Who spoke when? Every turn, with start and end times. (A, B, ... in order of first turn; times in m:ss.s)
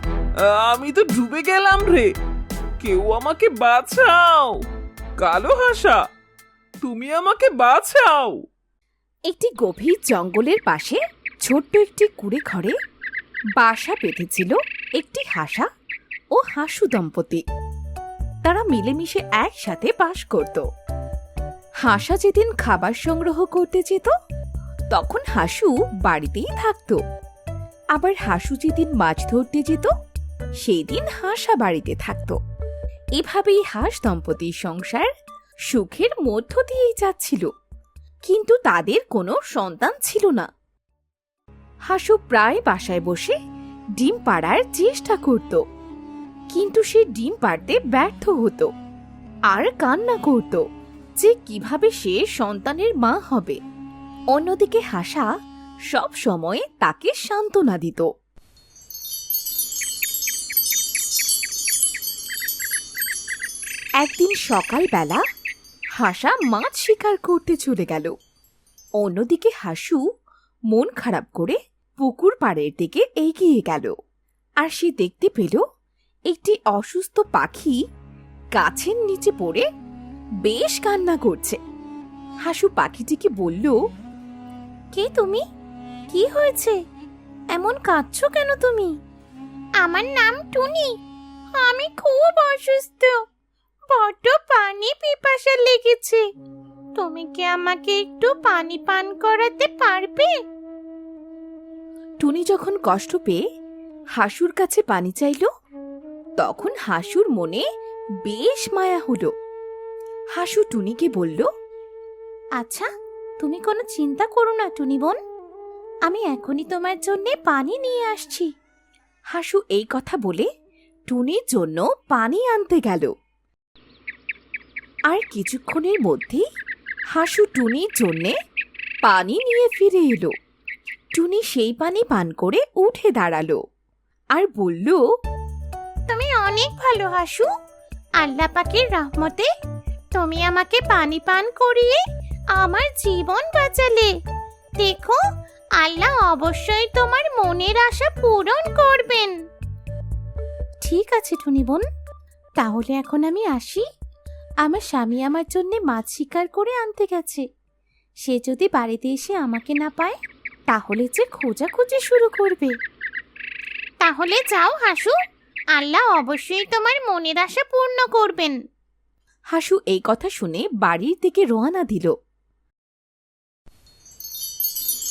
0:00.4-0:02.1 A
0:02.8-0:04.6 A
0:05.2-0:06.0 A
0:06.8-0:08.3 A
0:09.3-0:12.7 B
0:13.6-0:15.6 B
0:16.4-0:17.4 B
0:18.4-0:20.6 B
0:21.8-0:24.1 B
0:24.9-0:27.0 B
0:27.9-0:29.9 B
0:30.6-0:32.4 B
0:33.2-0:35.1 B
0:35.7-0:37.5 B
0:38.3-0:40.5 B
0:41.9-0:43.3 B
0:44.0-0:45.6 B
0:46.5-0:48.7 B
0:49.5-0:50.6 B
0:51.2-0:53.6 B
0:54.3-0:55.3 B
0:55.9-0:58.1 B
1:04.0-1:05.2 B
1:06.0-1:08.1 B
1:09.0-1:10.0 B
1:10.7-1:13.9 B
1:14.6-1:15.6 B
1:16.3-1:17.8 B
1:18.6-1:19.6 B
1:20.4-1:21.6 B
1:22.4-1:23.7 B
1:24.9-1:25.4 C
1:26.1-1:26.8 C
1:27.5-1:28.9 C
1:29.8-1:30.9 C
1:31.6-1:33.1 C
1:33.9-1:36.2 C
1:37.0-1:40.3 C
1:42.2-1:43.4 B
1:44.2-1:45.4 B
1:46.4-1:47.6 B
1:48.2-1:49.3 B
1:50.4-1:51.4 B
1:52.6-1:52.8 C
1:53.4-1:55.2 C
1:56.0-1:58.5 C
1:59.3-2:00.5 B
2:01.1-2:03.1 B
2:05.1-2:06.4 B
2:07.1-2:08.3 B
2:09.0-2:10.3 B
2:11.2-2:13.6 B
2:14.4-2:15.0 B
2:16.1-2:17.5 C
2:18.2-2:19.5 C
2:20.1-2:22.0 C
2:22.5-2:24.1 C
2:24.8-2:25.2 C
2:25.8-2:29.3 C
2:30.8-2:31.8 C
2:32.6-2:33.8 C
2:34.6-2:37.4 C
2:38.2-2:40.2 C
2:40.7-2:42.7 C
2:44.0-2:45.1 C
2:45.8-2:48.6 C
2:49.5-2:52.1 B